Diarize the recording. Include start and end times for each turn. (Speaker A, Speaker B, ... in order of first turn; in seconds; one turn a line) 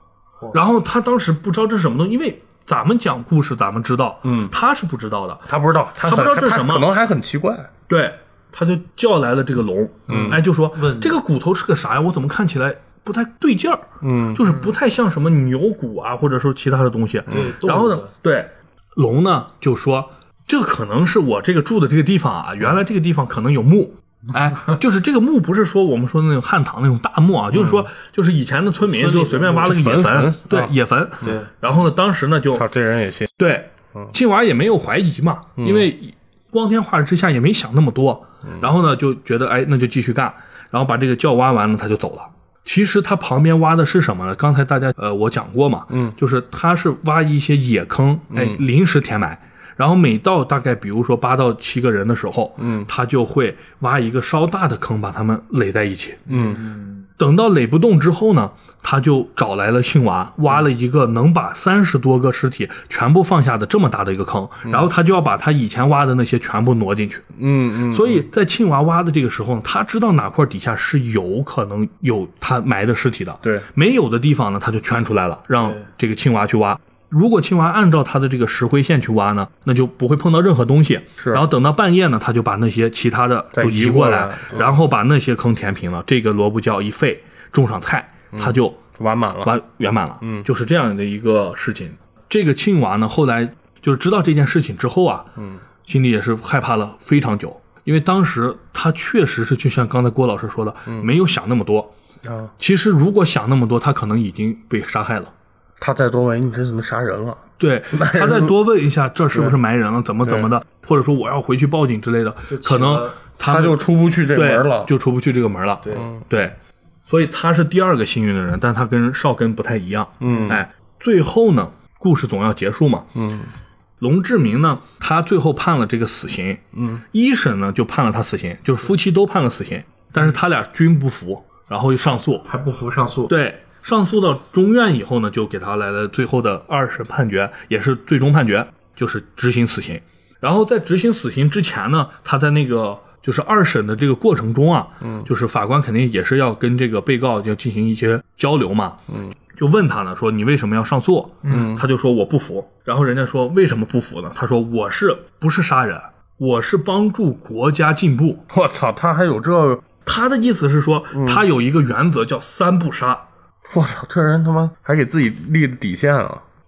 Speaker A: 0.5-6.9
Speaker B: 4.2-4.5
Speaker B: 5.5-7.7
Speaker A: 7.9-32.7
Speaker B: 10.1-10.4
Speaker C: 10.1-11.2
Speaker B: 14.0-14.4
Speaker B: 17.3-17.5
Speaker C: 17.3-18.1
Speaker B: 27.5-27.9
Speaker C: 28.8-29.7
Speaker B: 29.4-30.7
Speaker C: 31.2-31.5
Speaker B: 32.5-33.3
Speaker A: 33.4-56.3
Speaker B: 35.6-35.9
Speaker B: 48.3-48.6
Speaker B: 52.6-52.9
Speaker B: 56.3-56.6
Speaker C: 56.3-57.1
Speaker A: 57.2-67.3
Speaker B: 64.7-64.9
Speaker B: 67.3-68.3
Speaker A: 67.9-88.8
Speaker B: 81.2-81.4
Speaker B: 83.5-84.8
Speaker B: 88.3-89.5
Speaker A: 89.5-95.3
Speaker B: 95.4-95.6
Speaker A: 95.8-101.9
Speaker B: 102.2-102.5
Speaker A: 102.6-105.3
Speaker B: 105.8-108.6
Speaker A: 107.6-116.5
Speaker B: 110.2-110.5
Speaker C: 112.5-113.2
Speaker B: 113.4-114.9
Speaker C: 115.8-116.1
Speaker B: 115.9-116.2
Speaker A: 117.1-123.1
Speaker B: 120.2-120.6
Speaker C: 120.3-120.5
Speaker B: 123.2-123.5
Speaker A: 124.0-132.5
Speaker B: 126.7-127.0
Speaker C: 132.5-133.3
Speaker A: 133.3-158.4
Speaker B: 145.0-145.3
Speaker C: 151.4-151.7
Speaker B: 151.5-151.8
Speaker B: 158.5-159.8
Speaker A: 160.0-163.2
Speaker B: 161.1-161.5
Speaker B: 163.7-166.4